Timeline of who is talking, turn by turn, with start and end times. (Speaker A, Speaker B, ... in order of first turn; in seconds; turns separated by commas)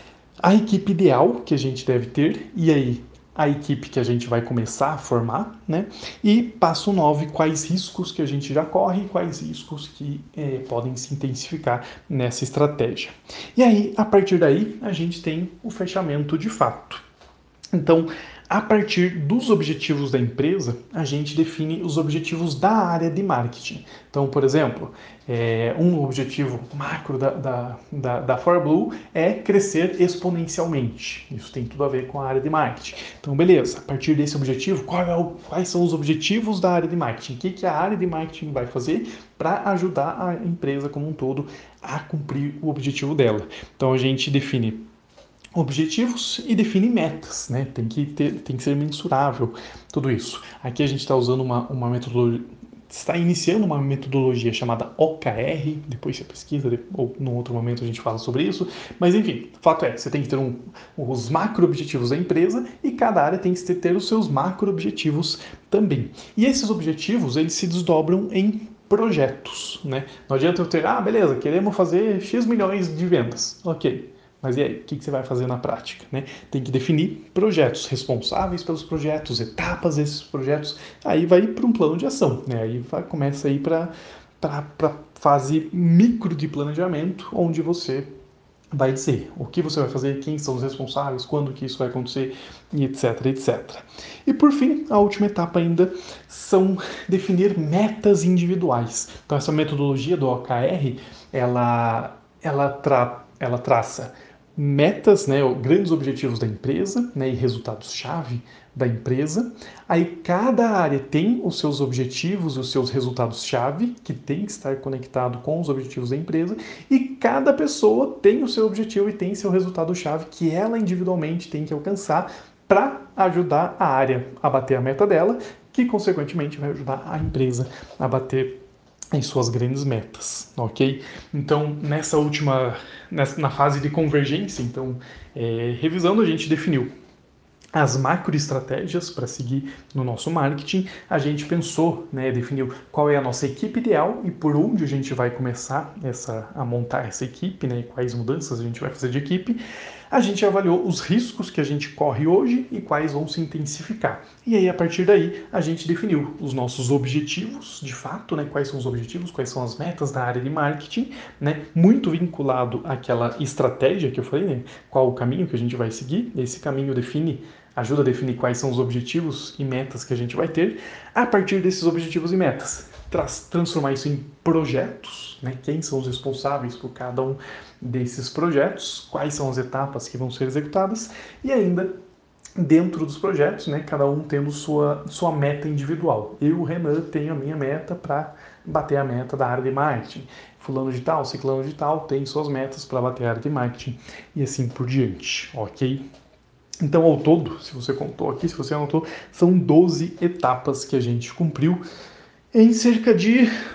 Speaker A: 0.4-17.0, Speaker A: 17.7-44.8, Speaker A: 45.5-88.1, Speaker A: 88.7-128.6, Speaker A: 129.1-136.9, Speaker A: 137.7-149.6, Speaker A: 150.1-181.9, Speaker A: 182.6-196.0, Speaker A: 196.8-201.8, Speaker A: 202.5-203.5